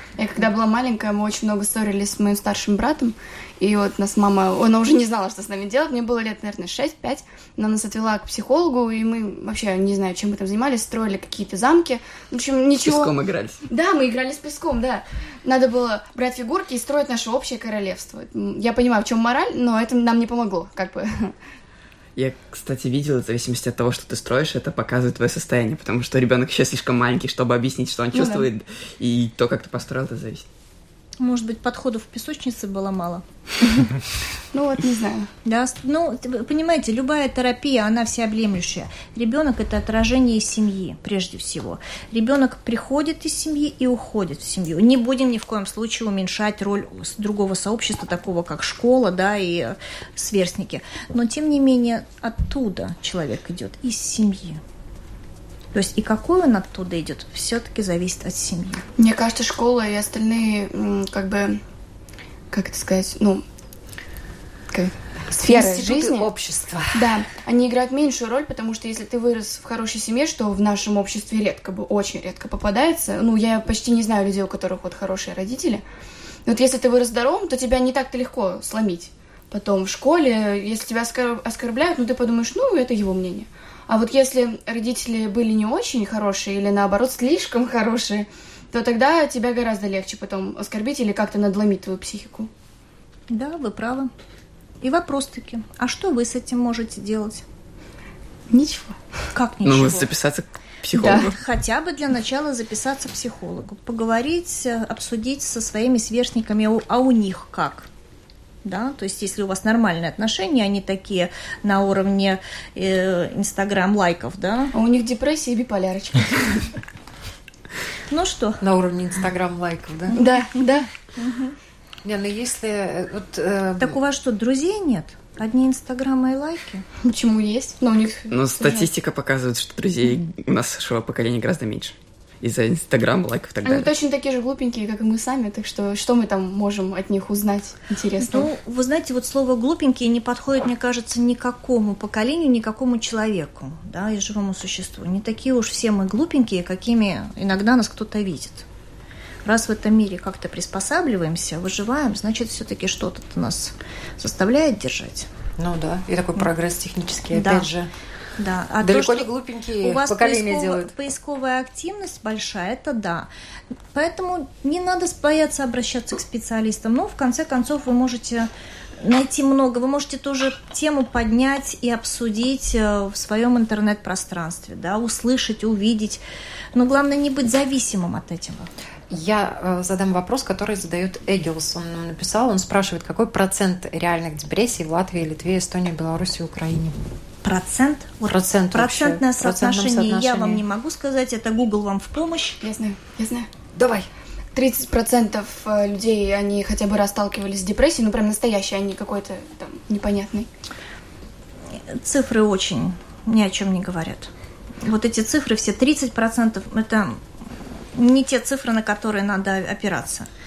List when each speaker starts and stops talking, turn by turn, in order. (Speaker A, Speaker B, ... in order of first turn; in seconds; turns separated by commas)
Speaker A: 0.2-13.2, Speaker B: 12.8-13.6, Speaker A: 13.7-21.4, Speaker B: 22.2-30.5, Speaker A: 28.1-28.5, Speaker C: 31.2-33.2, Speaker A: 34.5-35.3, Speaker C: 35.5-54.6, Speaker C: 55.7-58.9, Speaker A: 59.0-61.6, Speaker A: 62.5-63.4, Speaker A: 64.7-66.2, Speaker D: 65.3-67.2, Speaker A: 66.9-75.8, Speaker A: 76.5-92.5, Speaker C: 93.3-94.1, Speaker C: 94.8-97.4, Speaker A: 98.5-99.0, Speaker C: 99.3-100.1, Speaker B: 99.7-101.3, Speaker A: 100.9-101.3, Speaker C: 101.0-107.9, Speaker C: 108.6-114.7, Speaker A: 114.7-116.7, Speaker C: 118.1-118.6, Speaker D: 118.6-120.2, Speaker A: 120.2-120.9, Speaker C: 121.2-121.5, Speaker D: 122.0-124.0, Speaker C: 123.8-126.8, Speaker A: 127.0-128.9, Speaker B: 128.3-133.9, Speaker A: 133.6-138.5, Speaker C: 138.2-148.7, Speaker C: 149.4-155.3, Speaker D: 155.6-157.9, Speaker C: 157.3-157.7, Speaker C: 158.4-163.3, Speaker D: 158.8-160.9, Speaker C: 163.9-168.5, Speaker C: 169.0-176.2, Speaker C: 176.8-178.7, Speaker D: 179.1-187.0, Speaker C: 187.4-192.6, Speaker D: 188.2-190.6, Speaker A: 192.6-193.5, Speaker D: 193.8-194.1, Speaker A: 194.6-200.5, Speaker C: 201.9-204.3, Speaker C: 204.8-207.2, Speaker C: 207.9-210.3